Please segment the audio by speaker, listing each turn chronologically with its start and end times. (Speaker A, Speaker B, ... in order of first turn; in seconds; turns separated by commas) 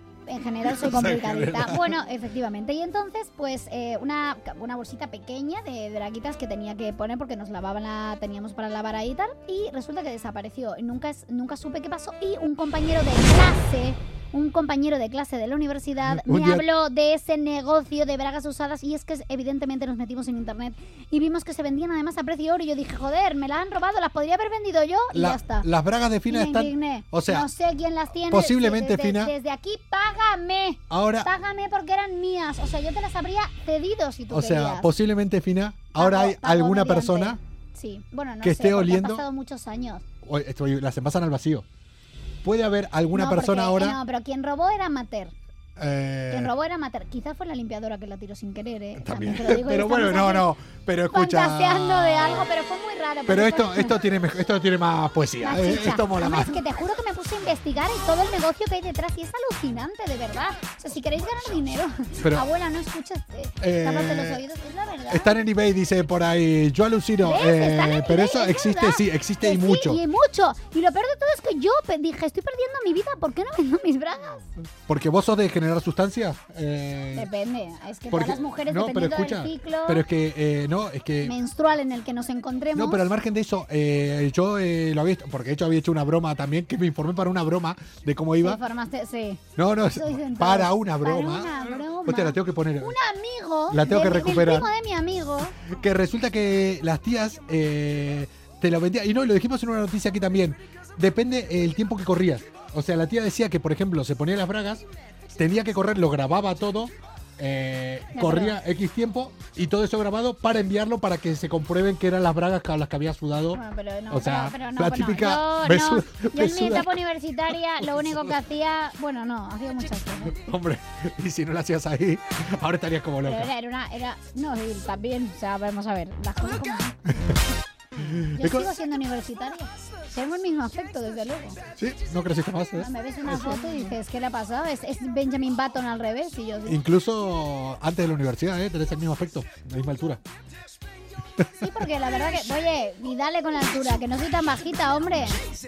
Speaker A: 0.3-25.7, Speaker B: 0.7-2.0, Speaker B: 16.0-16.6, Speaker B: 25.1-27.5, Speaker A: 26.3-34.9, Speaker B: 28.3-29.3, Speaker B: 30.9-31.3, Speaker B: 34.3-37.4, Speaker A: 36.0-40.0, Speaker B: 38.4-39.2, Speaker B: 40.2-41.6, Speaker B: 42.4-44.0, Speaker A: 43.1-45.3, Speaker B: 45.8-46.5, Speaker A: 46.3-50.5, Speaker B: 49.0-52.5, Speaker A: 51.1-54.0, Speaker B: 53.3-56.6, Speaker A: 55.4-65.4, Speaker B: 62.2-62.5, Speaker B: 63.6-64.4, Speaker B: 65.1-70.0, Speaker A: 67.2-74.5, Speaker B: 74.8-77.3, Speaker A: 77.1-80.0, Speaker B: 78.1-81.3, Speaker A: 81.2-83.1, Speaker B: 82.7-88.6, Speaker A: 88.4-89.4, Speaker B: 89.5-93.0, Speaker A: 89.9-95.5, Speaker B: 93.7-94.7, Speaker B: 95.7-104.8, Speaker B: 105.3-117.0, Speaker A: 108.2-108.5, Speaker A: 113.5-120.4, Speaker B: 120.3-123.5, Speaker A: 123.2-127.0, Speaker B: 128.0-128.7, Speaker A: 128.4-131.6, Speaker B: 131.8-133.9, Speaker A: 132.8-136.8, Speaker B: 136.7-140.2, Speaker A: 141.6-145.4